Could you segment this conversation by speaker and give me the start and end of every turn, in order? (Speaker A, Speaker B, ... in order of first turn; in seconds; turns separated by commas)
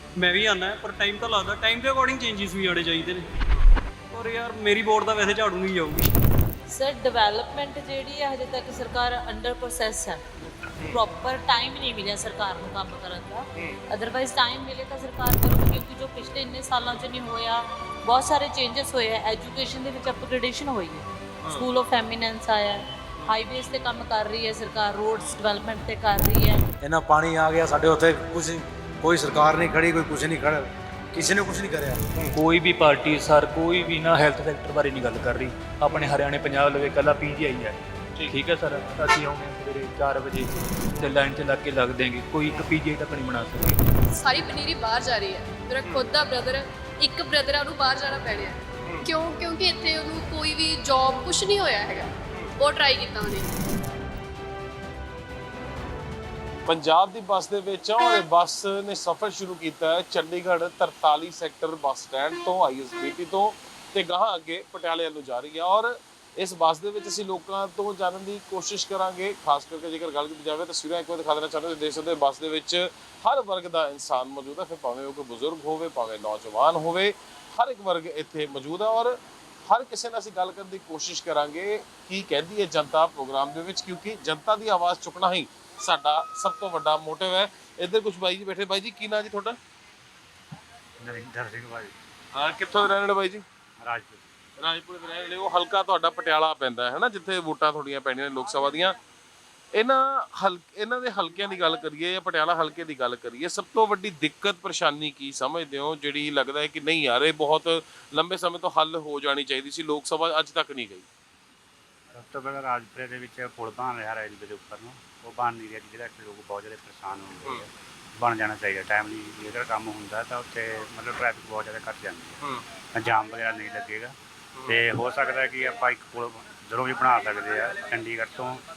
Speaker A: 0.2-3.3, Speaker A: 4.1-6.2, Speaker B: 6.7-10.2, Speaker B: 10.8-26.6, Speaker C: 26.8-32.0, Speaker D: 32.3-43.8, Speaker E: 35.9-36.2, Speaker F: 44.1-53.5, Speaker E: 45.8-46.1, Speaker E: 48.8-49.0, Speaker E: 56.7-89.6, Speaker G: 91.0-91.9, Speaker E: 92.3-93.5, Speaker G: 93.8-94.2, Speaker E: 94.6-99.0, Speaker E: 99.7-111.1, Speaker G: 112.1-122.4, Speaker G: 122.9-124.2, Speaker E: 124.6-124.8, Speaker G: 124.7-128.6